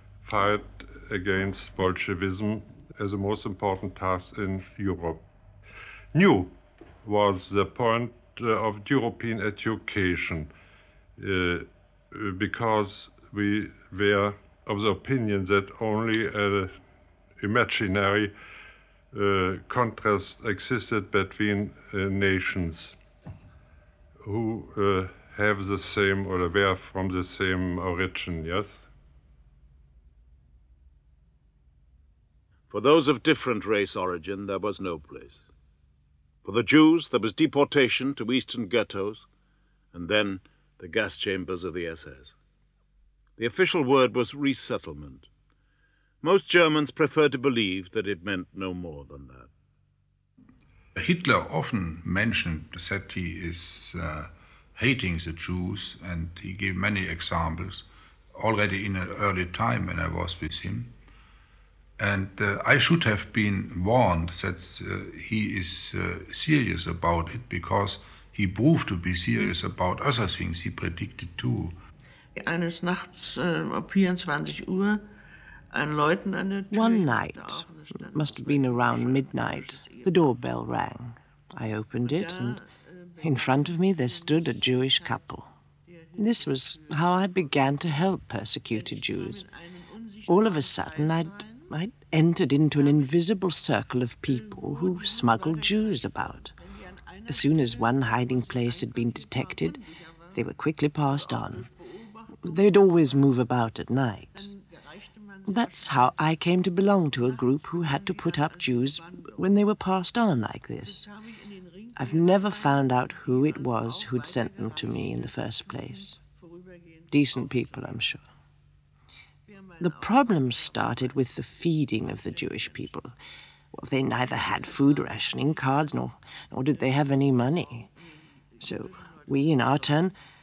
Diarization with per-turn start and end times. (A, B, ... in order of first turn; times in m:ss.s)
0:00.2-0:05.2 A
0:06.1-0:10.5 A
0:11.2-0:16.7 A
0:17.4-0:18.3 A
0:19.1-0:23.0 A
0:24.2-0:28.8 A
0:32.7-0:35.5 B
0:36.4-0:39.3 B
0:39.9-0:42.4 B
0:43.4-0:45.3 B
0:46.2-0:49.5 B
0:51.0-1:00.9 C
1:02.0-1:11.8 C
1:12.4-1:15.0 D
1:15.7-1:20.4 D
1:16.7-1:22.6 E
1:22.0-1:25.3 D
1:23.2-1:25.5 E
1:25.8-1:28.0 D
1:26.2-1:29.4 E
1:28.6-1:31.7 D
1:30.3-1:36.6 E
1:32.8-1:33.0 D
1:34.3-1:40.4 D
1:37.3-1:39.8 E
1:40.3-1:41.7 E
1:41.1-1:43.3 D
1:42.4-1:44.5 E
1:44.3-1:46.4 D
1:45.4-1:51.1 E
1:47.2-1:49.4 D
1:50.8-1:58.0 D
1:52.0-1:56.2 E
1:57.1-1:58.2 E
1:59.5-2:03.0 D
1:59.8-2:03.2 E
2:03.8-2:07.9 E
2:04.6-2:05.0 D
2:08.6-2:10.1 D
2:08.6-2:10.1 E